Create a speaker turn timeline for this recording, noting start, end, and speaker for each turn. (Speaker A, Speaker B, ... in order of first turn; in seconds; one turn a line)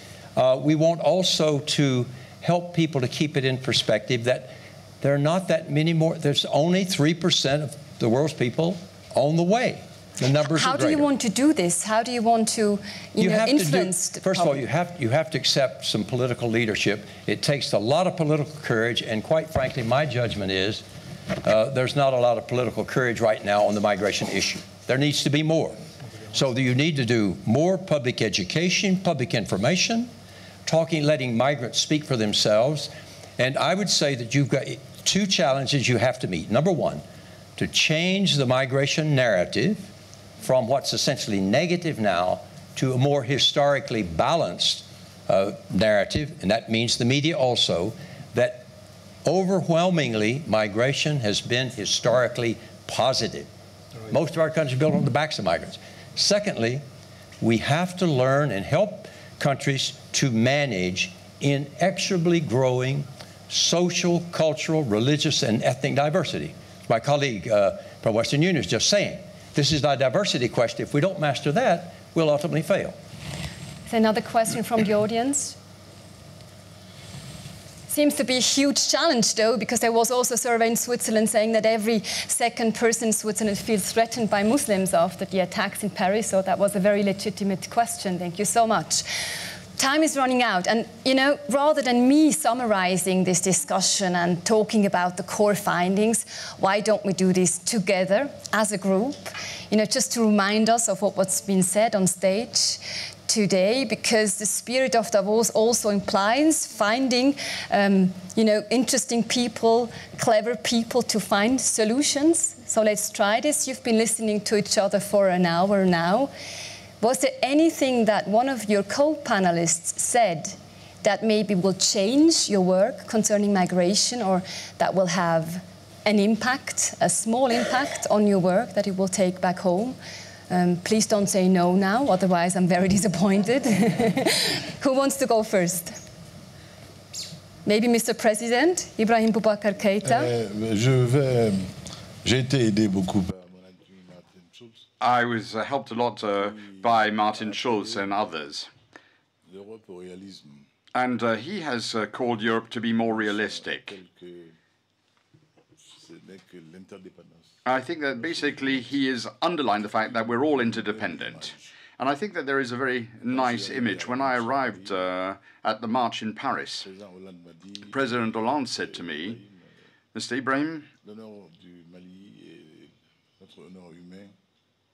Speaker A: 0.3-11.1
Speaker B: 10.5-14.6
Speaker A: 13.2-20.9
Speaker A: 21.4-30.1
Speaker A: 30.7-37.0
Speaker A: 37.6-39.9
Speaker A: 40.4-48.7
Speaker A: 49.2-53.5
Speaker A: 54.1-56.8
Speaker A: 57.4-73.0
Speaker B: 73.9-75.6
Speaker B: 77.9-89.1
Speaker B: 89.8-116.3
Speaker B: 117.0-130.0
Speaker B: 130.5-136.0
Speaker B: 137.7-140.3
Speaker C: 140.0-144.9
Speaker D: 145.0-148.7
Speaker C: 146.3-148.3
Speaker C: 149.5-150.7
Speaker D: 150.9-153.9
Speaker C: 152.7-154.6
Speaker C: 155.9-159.1
Speaker D: 157.7-166.9
Speaker C: 159.8-161.7
Speaker C: 163.3-165.1
Speaker C: 166.8-169.7
Speaker D: 167.9-169.4
Speaker D: 170.1-170.9
Speaker C: 171.0-174.3